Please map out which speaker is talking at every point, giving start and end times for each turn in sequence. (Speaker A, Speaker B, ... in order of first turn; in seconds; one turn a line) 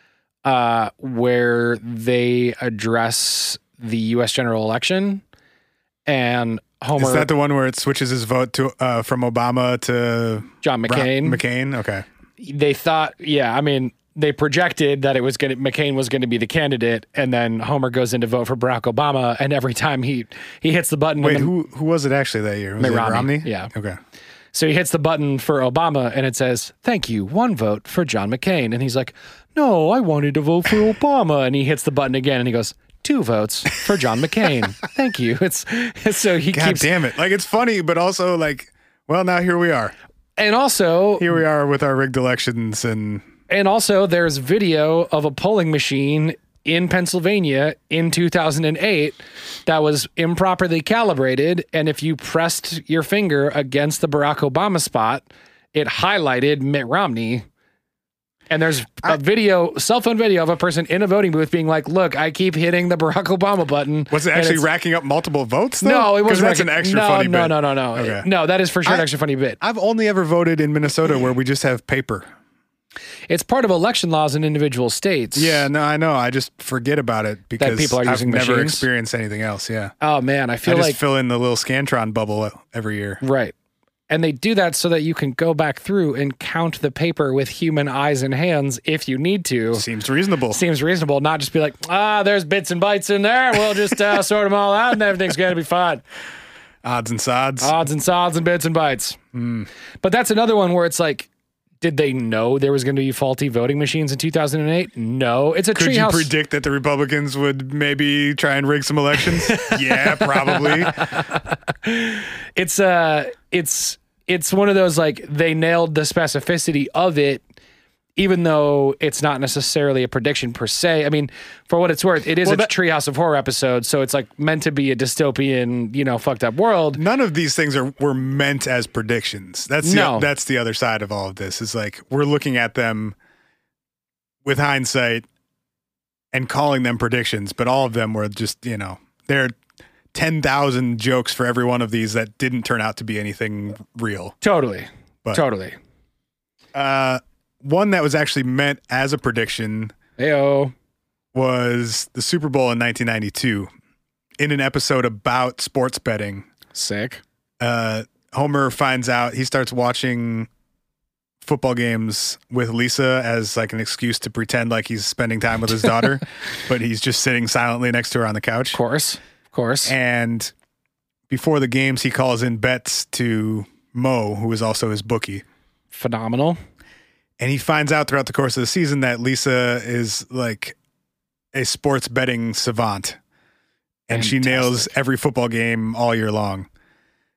Speaker A: 0.5-5.2
Speaker A: 6.1-7.3
Speaker B: 7.0-12.1
Speaker A: 10.6-11.4
Speaker A: 12.4-21.5
Speaker B: 21.2-24.0
Speaker A: 22.8-23.7
Speaker A: 24.5-36.9
Speaker B: 36.5-39.9
Speaker A: 40.4-41.4
Speaker B: 41.2-43.3
Speaker A: 43.5-57.5
Speaker A: 58.5-64.7
Speaker B: 64.1-68.3
Speaker A: 65.8-69.6
Speaker B: 69.6-72.3
Speaker A: 73.3-75.7
Speaker B: 75.3-79.9
Speaker A: 77.6-78.9
Speaker A: 80.0-81.0
Speaker B: 80.6-83.2
Speaker A: 83.2-83.5
Speaker A: 84.1-89.9
Speaker B: 89.7-90.6
Speaker A: 90.5-96.0
Speaker B: 96.8-97.7
Speaker A: 97.6-99.2
Speaker B: 99.3-99.7
Speaker A: 100.0-101.3
Speaker A: 101.8-106.3
Speaker B: 105.7-111.0
Speaker A: 109.5-117.4
Speaker A: 118.2-127.0
Speaker B: 122.4-122.7
Speaker B: 126.9-133.2
Speaker A: 129.8-130.3
Speaker B: 134.4-135.2
Speaker B: 136.3-139.6
Speaker B: 140.1-144.4
Speaker A: 144.4-145.8
Speaker B: 146.7-149.9
Speaker A: 150.2-150.7
Speaker B: 151.3-153.7
Speaker B: 154.4-156.5
Speaker A: 156.7-157.2
Speaker B: 157.6-160.5
Speaker B: 161.4-168.8
Speaker A: 168.7-169.9
Speaker B: 169.8-170.5
Speaker B: 171.3-175.4
Speaker A: 175.9-176.6
Speaker B: 177.4-180.8
Speaker B: 181.5-183.2
Speaker B: 184.1-186.7
Speaker A: 184.1-184.9